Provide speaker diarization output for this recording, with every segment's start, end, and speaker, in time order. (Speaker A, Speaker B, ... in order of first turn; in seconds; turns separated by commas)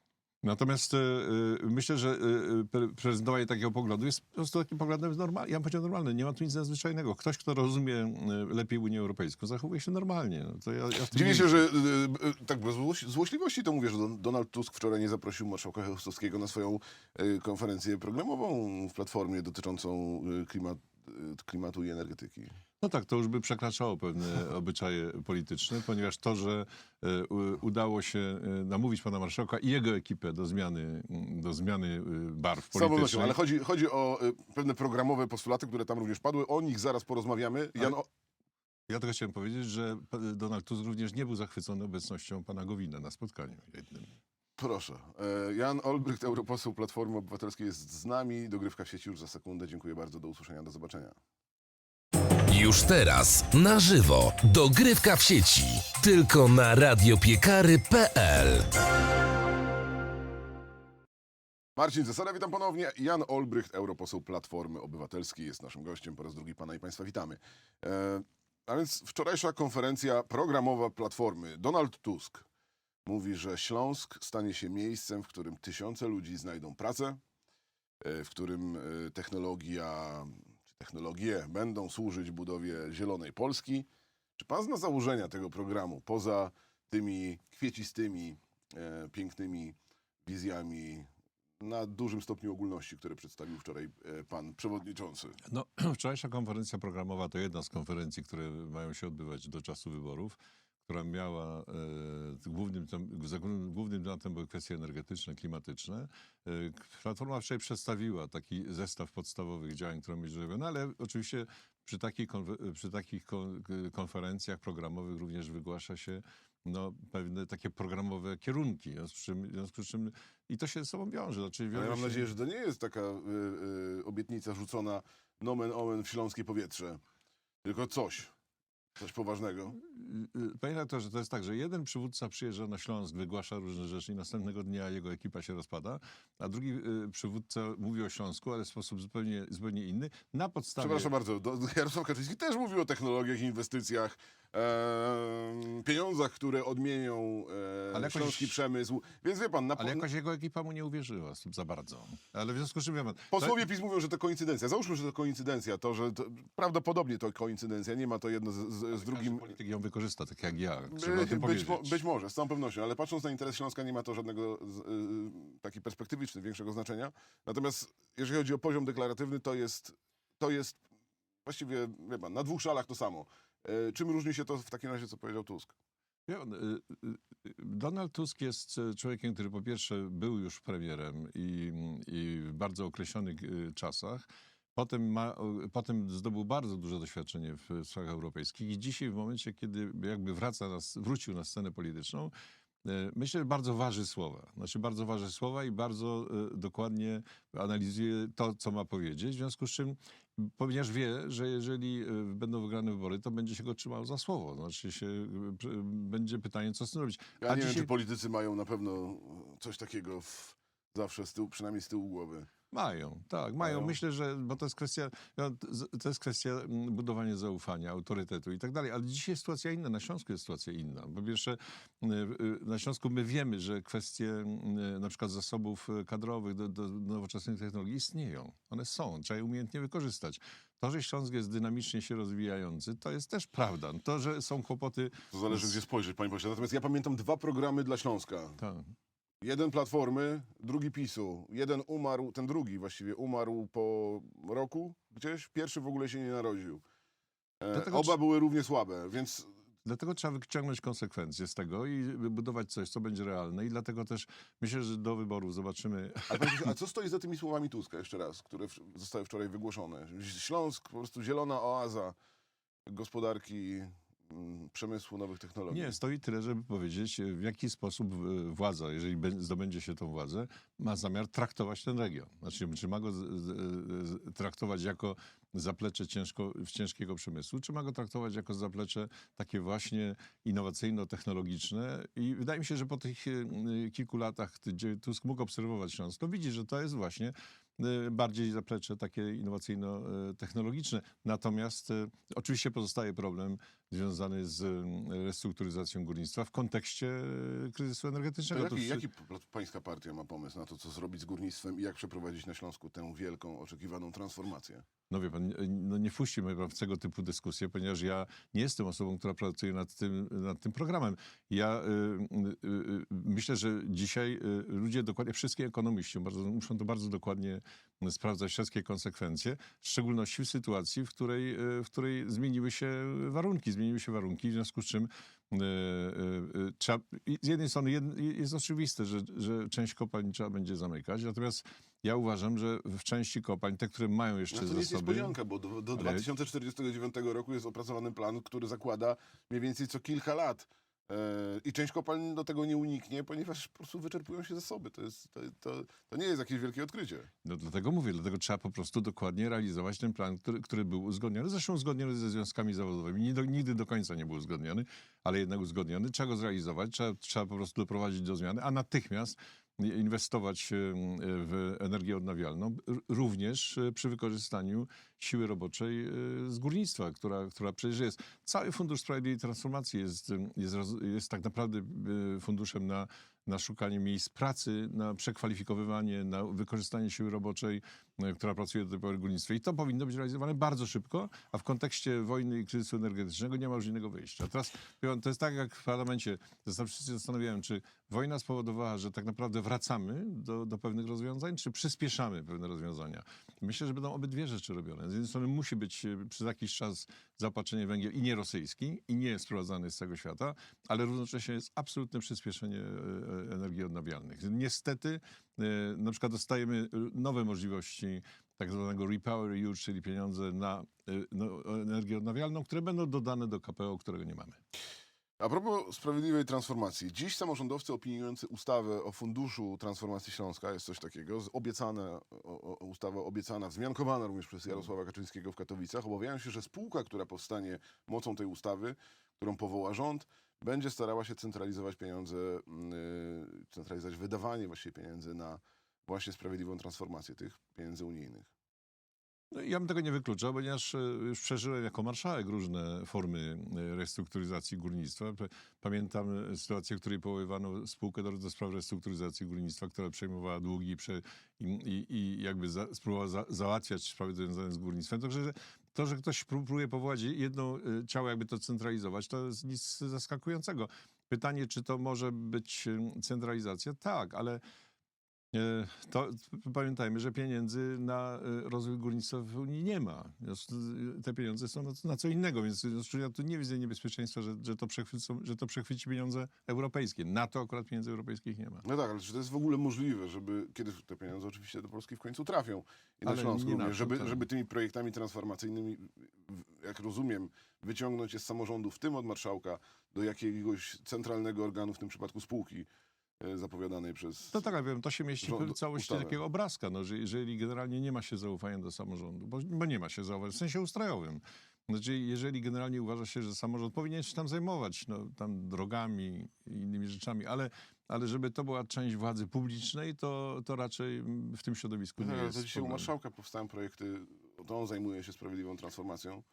Speaker A: 0.4-11.7, Speaker B: 11.1-22.5, Speaker A: 22.8-33.4, Speaker B: 32.7-38.1, Speaker A: 38.9-44.2, Speaker B: 44.6-51.1, Speaker C: 52.5-58.7, Speaker B: 61.8-72.5, Speaker B: 73.0-77.2, Speaker B: 78.0-95.4, Speaker A: 95.4-122.3, Speaker B: 121.7-127.0, Speaker B: 127.6-128.3, Speaker B: 129.0-129.8, Speaker A: 129.7-141.1, Speaker B: 140.8-150.1, Speaker A: 147.9-148.6, Speaker A: 149.8-153.6, Speaker B: 153.3-159.5, Speaker A: 158.9-162.0, Speaker B: 160.9-170.8, Speaker B: 171.4-175.7, Speaker A: 176.3-192.3, Speaker A: 192.8-207.9, Speaker B: 207.4-212.5, Speaker A: 212.7-235.7, Speaker B: 213.6-214.0, Speaker B: 235.3-238.6, Speaker A: 238.6-238.9, Speaker B: 239.4-246.8, Speaker B: 247.6-249.5, Speaker A: 247.7-248.2, Speaker A: 249.8-256.7, Speaker B: 256.3-262.1, Speaker B: 262.9-265.9, Speaker A: 265.7-299.0, Speaker B: 298.5-304.8, Speaker A: 305.1-335.4, Speaker B: 334.5-347.3, Speaker A: 335.9-336.2, Speaker A: 347.4-414.6, Speaker B: 415.4-438.5, Speaker A: 439.5-464.6, Speaker A: 465.5-478.8, Speaker B: 478.8-492.9, Speaker A: 483.2-484.5, Speaker B: 493.4-494.6, Speaker A: 494.5-513.1, Speaker B: 495.4-496.4, Speaker B: 512.2-516.4